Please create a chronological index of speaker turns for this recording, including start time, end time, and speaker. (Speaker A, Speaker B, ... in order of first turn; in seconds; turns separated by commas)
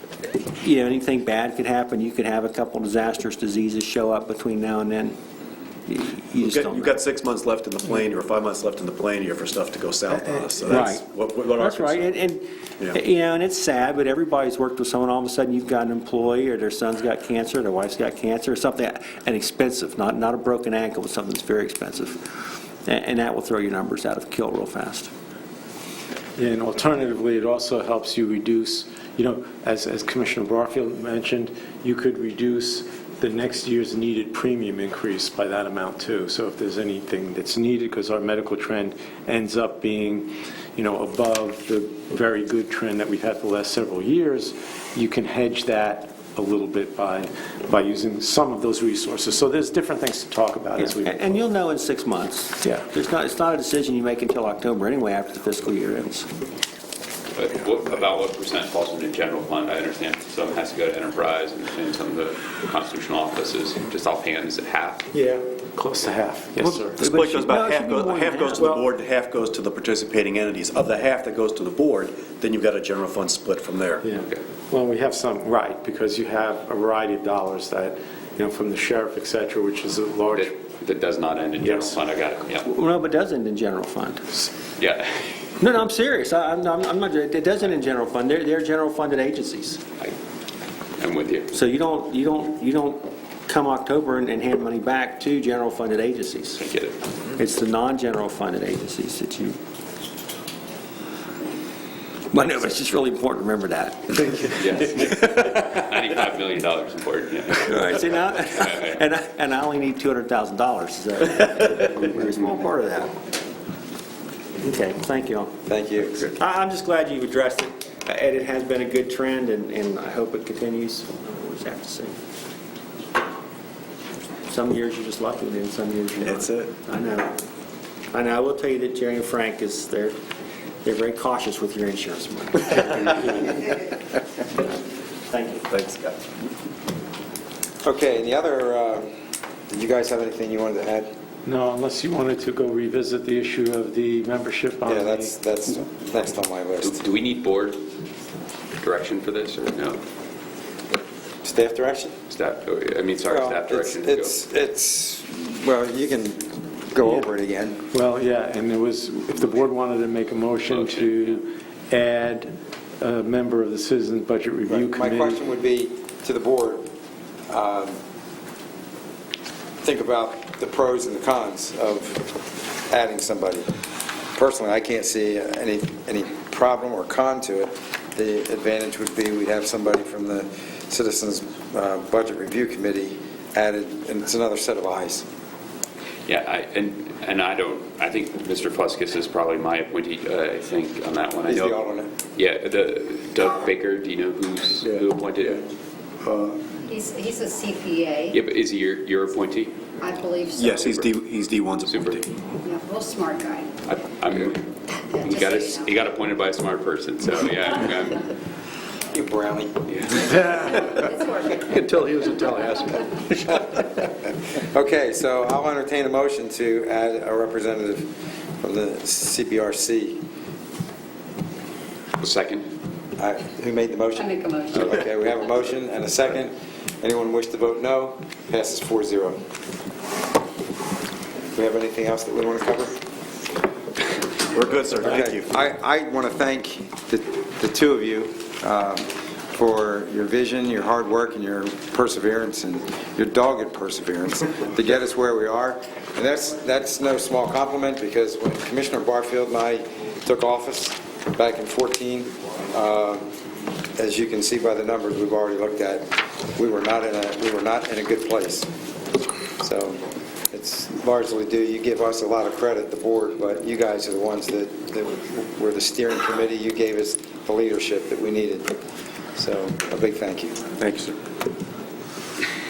Speaker A: 0.2-5.2, Speaker A: 5.9-7.0, Speaker B: 6.3-12.2, Speaker A: 10.7-25.1, Speaker C: 26.4-51.4, Speaker A: 50.8-56.3, Speaker D: 57.4-65.1, Speaker C: 65.1-67.0, Speaker A: 66.6-68.8, Speaker B: 67.0-74.0, Speaker C: 74.0-80.6, Speaker D: 74.2-74.4, Speaker D: 80.3-82.7, Speaker C: 81.6-82.0, Speaker A: 82.7-84.3, Speaker D: 84.8-85.4, Speaker A: 85.6-89.8, Speaker D: 91.0-91.5, Speaker A: 91.5-96.6, Speaker D: 96.6-97.0, Speaker A: 97.4-99.6, Speaker A: 102.3-105.0, Speaker D: 104.6-109.0, Speaker A: 107.6-113.1, Speaker A: 114.6-115.6, Speaker E: 115.7-116.3, Speaker A: 116.2-122.2, Speaker A: 124.5-127.4, Speaker A: 128.1-130.2, Speaker A: 130.8-133.9, Speaker A: 135.3-136.1, Speaker E: 137.8-139.1, Speaker E: 139.7-141.1, Speaker C: 141.5-145.4, Speaker E: 144.9-147.0, Speaker D: 146.8-147.8, Speaker D: 148.8-150.0, Speaker E: 151.4-152.1, Speaker D: 152.3-154.3, Speaker E: 153.3-157.8, Speaker C: 157.9-165.4, Speaker D: 160.7-161.4, Speaker E: 164.7-166.9, Speaker E: 167.5-168.0, Speaker E: 169.8-172.3, Speaker E: 172.9-173.7, Speaker E: 174.3-185.3, Speaker D: 186.3-191.8, Speaker E: 191.5-192.1, Speaker D: 192.3-195.6, Speaker E: 196.3-196.6, Speaker F: 196.9-198.4, Speaker D: 198.3-200.0, Speaker F: 200.0-201.1, Speaker B: 200.6-202.3, Speaker D: 201.9-202.2, Speaker F: 202.6-203.8, Speaker D: 203.9-208.3, Speaker F: 204.9-206.0, Speaker E: 209.1-209.8, Speaker D: 209.9-210.4, Speaker F: 210.3-211.7, Speaker B: 211.6-213.1, Speaker E: 214.6-220.2, Speaker D: 222.2-222.7, Speaker E: 223.2-229.4, Speaker F: 224.2-224.9, Speaker E: 231.5-233.0, Speaker B: 234.5-235.5, Speaker E: 235.0-253.3, Speaker E: 254.0-258.7, Speaker E: 259.6-268.7, Speaker E: 269.4-270.6, Speaker B: 270.8-271.1